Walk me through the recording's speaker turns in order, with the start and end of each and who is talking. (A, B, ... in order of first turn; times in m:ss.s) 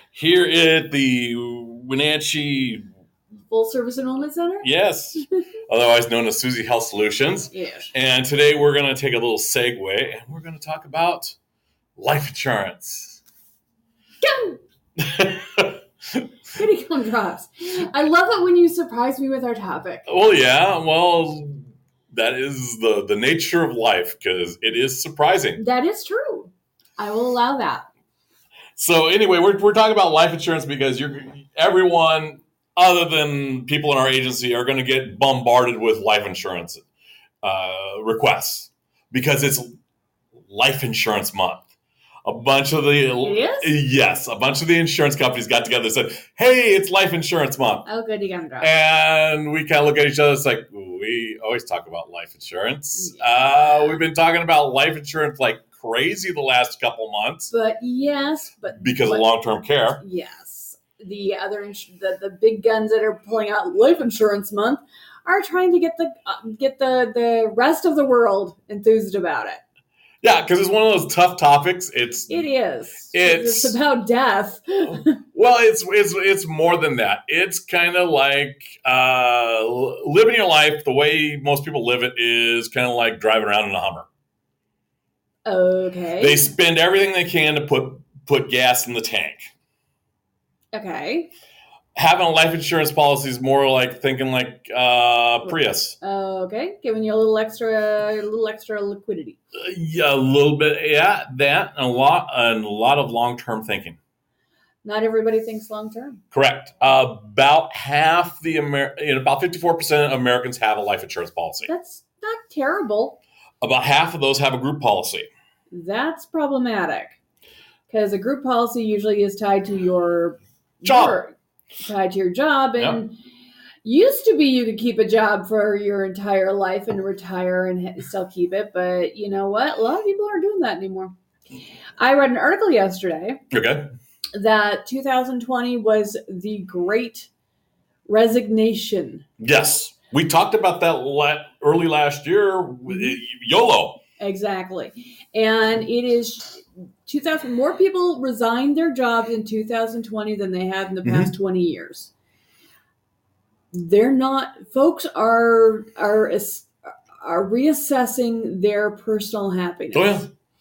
0:00.1-0:02.8 A
0:03.5-0:04.7 B
0:04.6-0:11.4 A
0:07.5-0:07.9 B
0:12.0-0:13.2 A
0:14.2-0:14.6 B
0:15.0-0:16.2 A
0:16.6-0:20.2 B
0:20.1-0:25.6 A
0:25.6-0:27.8 B
0:28.8-0:36.8 A
0:37.4-0:39.7 A
0:40.5-0:41.6 A
0:42.2-0:47.8 A
0:43.2-0:43.8 B
0:47.9-0:48.7 B
0:48.6-0:57.5 A
0:53.0-0:54.0 B
0:57.5-0:59.3 B
0:58.8-1:00.0 A
1:00.0-1:09.6 B
1:10.2-1:12.5 A
1:12.3-1:15.2 B
1:13.1-1:13.8 A
1:14.9-1:24.1 A
1:25.4-1:26.5 B
1:26.2-1:29.5 A
1:30.7-1:31.3 B
1:32.0-1:36.0 A
1:35.4-1:39.4 B
1:39.6-1:44.0 A
1:44.8-1:46.2 B
1:46.3-1:51.7 A
1:51.7-1:53.2 B
1:53.6-1:55.3 A
1:55.7-1:57.2 B
1:57.9-2:03.2 B
2:00.8-2:01.2 A
2:03.8-2:11.1 B
2:12.0-2:13.4 B
2:13.5-2:13.9 A
2:14.3-2:17.3 B
2:18.1-2:19.2 B
2:19.4-2:24.0 A
2:24.2-2:32.1 B
2:31.0-2:31.3 A
2:33.7-2:40.3 B
2:39.9-2:40.3 A